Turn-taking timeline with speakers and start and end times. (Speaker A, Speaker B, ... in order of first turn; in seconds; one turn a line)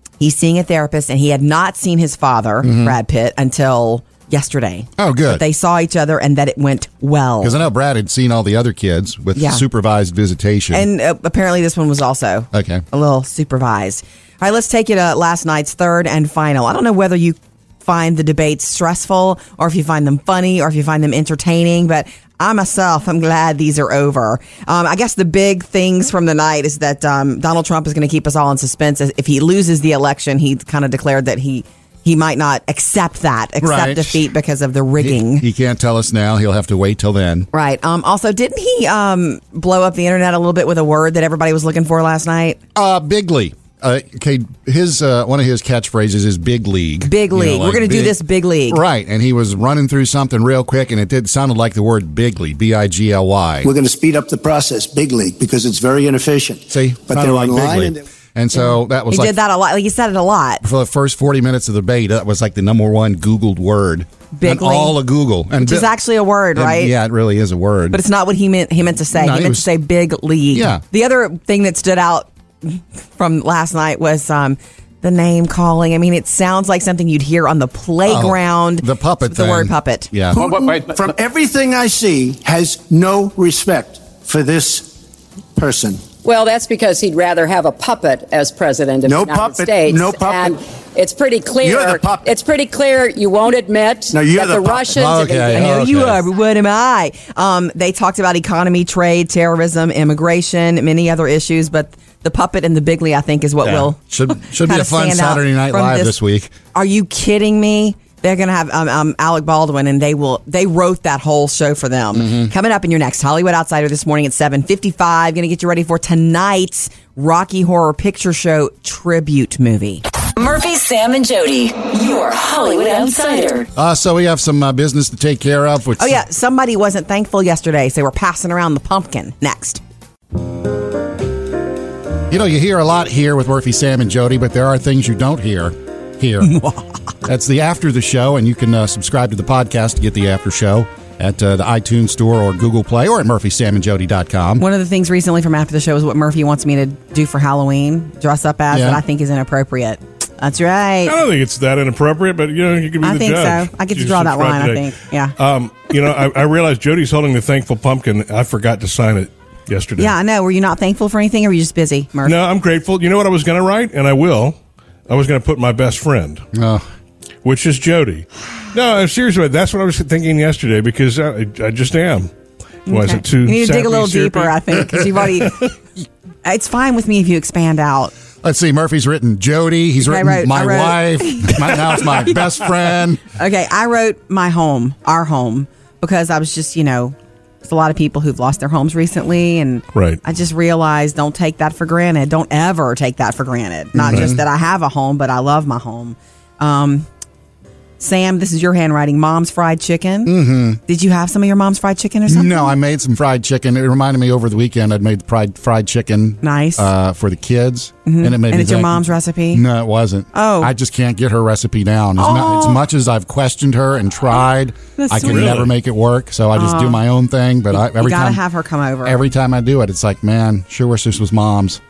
Speaker A: 0.2-7.6
Speaker B: 2.6-3.0
Speaker B: 5.0-5.4
Speaker B: 7.4-10.9
Speaker A: 9.4-9.6
Speaker A: 10.7-35.5
Speaker B: 12.5-12.8
Speaker B: 33.6-34.2
Speaker B: 35.0-37.5
Speaker A: 37.5-42.6
Speaker B: 42.8-53.7
Speaker A: 47.0-48.8
Speaker C: 53.6-58.0
Speaker B: 56.7-59.4
Speaker A: 58.5-60.6
Speaker B: 60.6-65.9
Speaker A: 64.3-65.0
Speaker A: 65.6-66.9
Speaker B: 66.5-68.0
Speaker A: 67.9-80.1
Speaker B: 69.1-69.7
Speaker B: 70.5-70.8
Speaker B: 78.1-80.4
Speaker C: 80.3-84.9
Speaker C: 85.6-86.1
Speaker D: 86.2-95.7
Speaker C: 89.0-90.6
Speaker C: 91.6-92.3
Speaker C: 94.1-95.0
Speaker B: 94.9-96.2
Speaker A: 95.5-106.2
Speaker B: 103.6-106.5
Speaker A: 106.7-120.0
Speaker B: 112.2-112.5
Speaker E: 120.3-123.7
Speaker B: 123.8-126.2
Speaker A: 126.0-129.8
Speaker B: 132.3-136.5
Speaker A: 136.4-137.0
Speaker B: 137.2-144.7
Speaker A: 144.6-151.2
Speaker B: 148.7-149.0
Speaker F: 151.1-160.2
Speaker A: 153.0-155.3
Speaker A: 160.0-162.4
Speaker F: 162.2-164.6
Speaker F: 165.1-166.5
Speaker B: 166.5-166.8
Speaker F: 167.4-172.3
Speaker F: 172.9-175.1
Speaker A: 172.9-175.7
Speaker A: 176.4-178.1
Speaker B: 178.4-183.2
Speaker A: 180.0-182.7
Speaker A: 183.3-197.1
Speaker F: 189.9-190.2
Speaker B: 193.9-194.4
Speaker A: 198.0-202.7
Speaker B: 200.3-200.8
Speaker B: 202.3-218.4
Speaker A: 206.4-206.9
Speaker A: 208.1-209.6
Speaker A: 210.3-210.7
Speaker A: 212.2-212.8
Speaker A: 215.0-215.5
Speaker F: 215.2-215.7
Speaker A: 216.6-217.0
Speaker A: 217.9-219.2
Speaker B: 219.1-221.8